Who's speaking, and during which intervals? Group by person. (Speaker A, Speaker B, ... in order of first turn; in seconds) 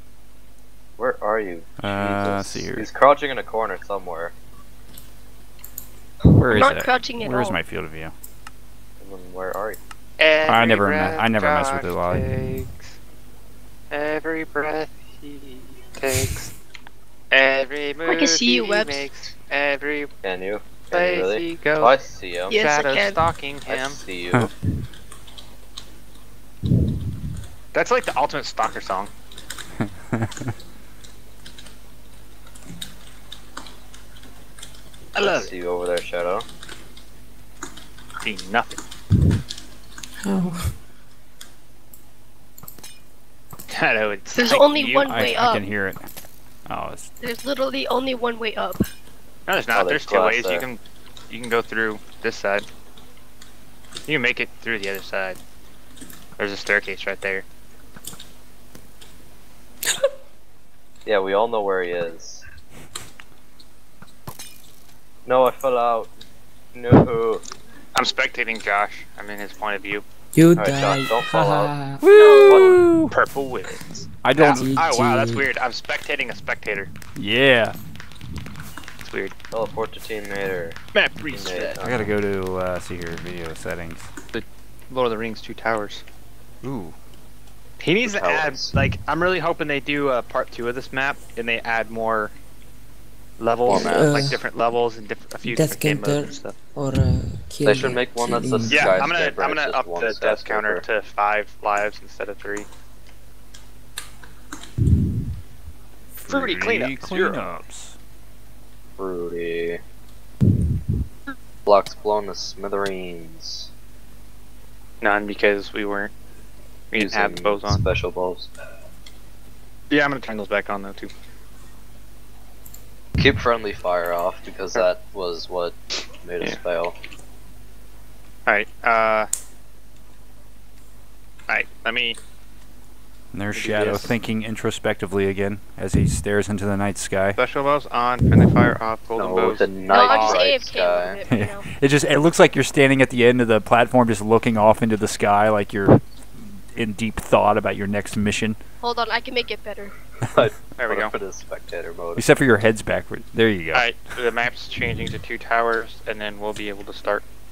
Speaker A: 1.0-4.3, 9.0-9.8, 20.2-22.6, 23.7-24.5, 35.2-36.5, 49.7-50.7, 61.1-62.4, 65.3-66.1, 66.7-67.5, 70.6-71.7, 72.5-72.8, 79.5-80.8, 81.3-82.1, 88.0-88.7, 93.6-94.4, 97.7-100.8, 109.0-109.8, 111.7-113.7, 117.0-118.5, 123.2-127.0, 139.2-141.2, 150.3-152.3
Speaker B: 1.8-2.9, 6.3-8.1, 10.5-12.3, 29.8-30.5, 45.1-46.1, 46.7-47.1, 72.0-73.2, 74.2-74.7, 77.2-77.8, 81.8-84.1, 86.6-86.9, 106.2-108.0, 133.3-137.4, 141.3-148.6, 152.2-153.9
Speaker C: 6.5-7.6, 18.1-19.1, 22.5-23.2, 44.3-45.7, 47.2-48.8, 72.1-72.9, 139.8-141.7, 148.8-149.9
Speaker D: 10.2-12.9, 13.9-16.5, 17.3-20.1, 20.9-24.0, 27.7-29.1, 35.1-35.5, 38.2-38.8, 43.7-45.2, 49.5-52.7, 54.1-55.4, 56.4-57.5, 68.0-70.0, 73.1-76.9, 79.0-79.3, 80.9-82.1, 84.3-86.0, 87.8-92.3, 93.4-96.5, 98.7-102.7, 106.3-107.5, 115.0-116.1, 116.9-117.8, 119.9-121.1, 128.5-129.3, 131.5-132.2, 133.5-134.2, 137.4-140.4, 150.8-151.1, 153.7-157.2
Speaker E: 40.2-40.7, 70.3-72.1, 74.4-75.5, 93.7-94.4, 95.4-99.0